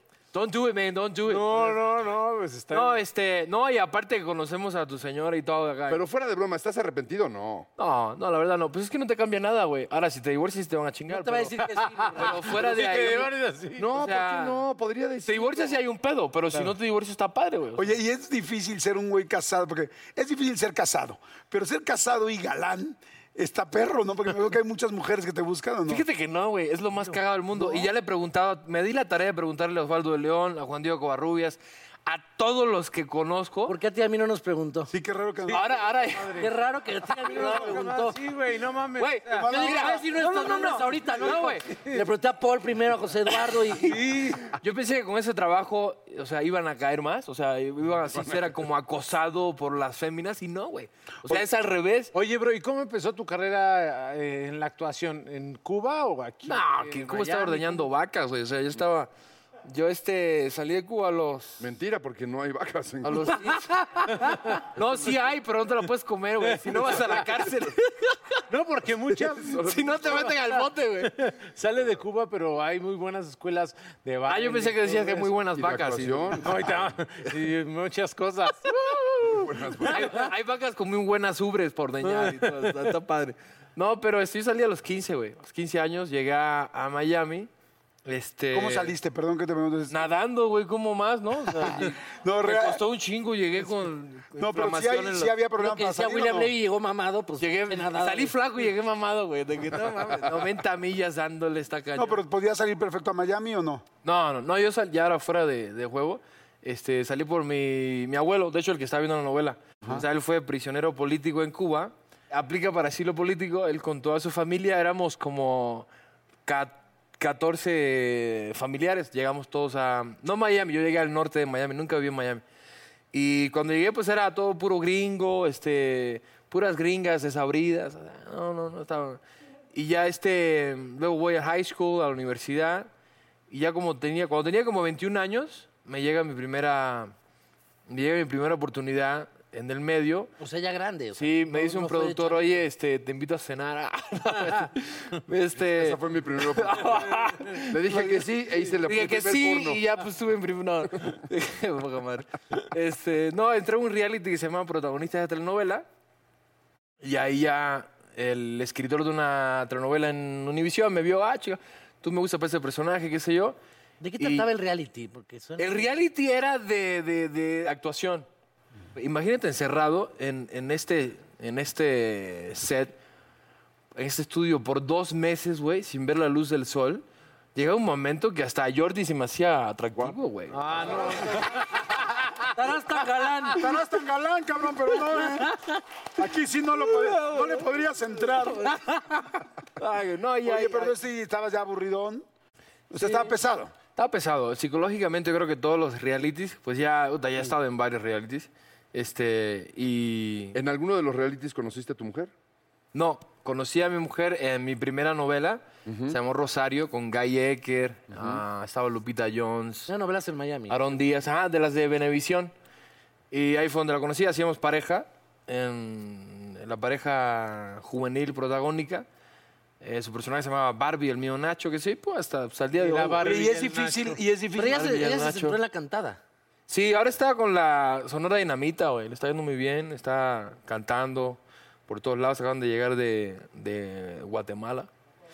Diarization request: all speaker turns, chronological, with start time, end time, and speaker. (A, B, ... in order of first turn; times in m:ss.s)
0:00.3-0:01.8 A
0:01.3-0:03.0 B
0:02.7-0:06.0 A
0:05.9-0:07.7 C
0:07.8-0:11.6 A
0:11.1-0:13.3 D
0:11.7-0:13.9 B
0:12.2-0:13.3 A
0:13.8-0:15.8 C
0:13.9-0:14.6 A
0:15.2-0:18.0 A
0:17.8-0:26.0 E
0:25.9-0:33.8 A
0:33.7-0:34.9 D
0:34.9-0:35.8 E
0:35.5-0:36.5 A
0:36.2-0:36.5 B
0:36.3-0:38.2 D
0:37.1-0:42.0 B
0:39.0-0:40.7 A
0:39.3-0:40.0 E
0:39.4-0:44.0 D
0:41.2-0:41.7 A
0:43.8-0:44.5 B
0:43.9-0:52.1 A
0:48.1-0:48.6 C
0:52.1-0:57.9 B
0:56.5-0:59.1 A
0:59.7-1:01.6 A
1:01.6-1:03.6 C
1:03.1-1:08.4 A
1:04.1-1:04.5 B
1:06.4-1:07.3 B
1:08.5-1:10.5 B
1:09.4-1:10.3 C
1:09.6-1:11.1 A
1:11.0-1:15.3 B
1:14.3-1:16.4 A
1:15.6-1:16.7 C
1:16.4-1:20.2 B
1:18.7-1:19.0 A
1:19.3-1:20.2 C
1:19.9-1:27.5 A
1:22.0-1:22.9 B
1:28.1-1:29.0 A
1:28.5-1:30.0 E
1:29.9-1:35.4 A
1:31.6-1:32.8 E
1:34.4-1:36.5 E
1:35.6-1:38.4 D
1:37.4-1:42.2 A
1:41.9-1:43.8 E
1:44.0-1:55.9 A
1:56.5-2:02.4 A
2:03.1-2:09.2 A
2:09.7-2:12.9 A
2:13.5-2:17.1 A
2:17.9-2:20.3 A
2:20.4-2:22.4 D
2:21.2-2:28.3 A
2:25.7-2:27.1 C
2:27.7-2:29.8 C
2:28.8-2:35.8 A
2:37.0-2:43.6 A
2:44.0-2:45.9 D
2:44.2-2:44.5 A
2:45.6-2:48.3 A
2:49.0-2:53.0 A
2:54.0-3:00.7 A
3:00.5-3:02.0 B
3:02.5-3:03.7 D
3:03.6-3:05.5 E
3:06.2-3:08.8 E
3:09.8-3:11.0 A
3:10.4-3:12.2 E
3:12.9-3:13.7 E
3:14.0-3:20.6 A
3:20.5-3:22.3 C
3:22.9-3:29.9 A
3:25.9-3:26.2 C
3:28.1-3:28.4 C
3:29.9-3:31.0 D
3:30.7-3:32.5 A
3:33.3-3:39.1 A
3:39.8-3:43.4 A
3:42.8-3:44.8 B
3:43.2-3:44.2 E
3:44.5-3:46.2 D
3:44.6-3:45.6 A
3:46.7-3:54.9 A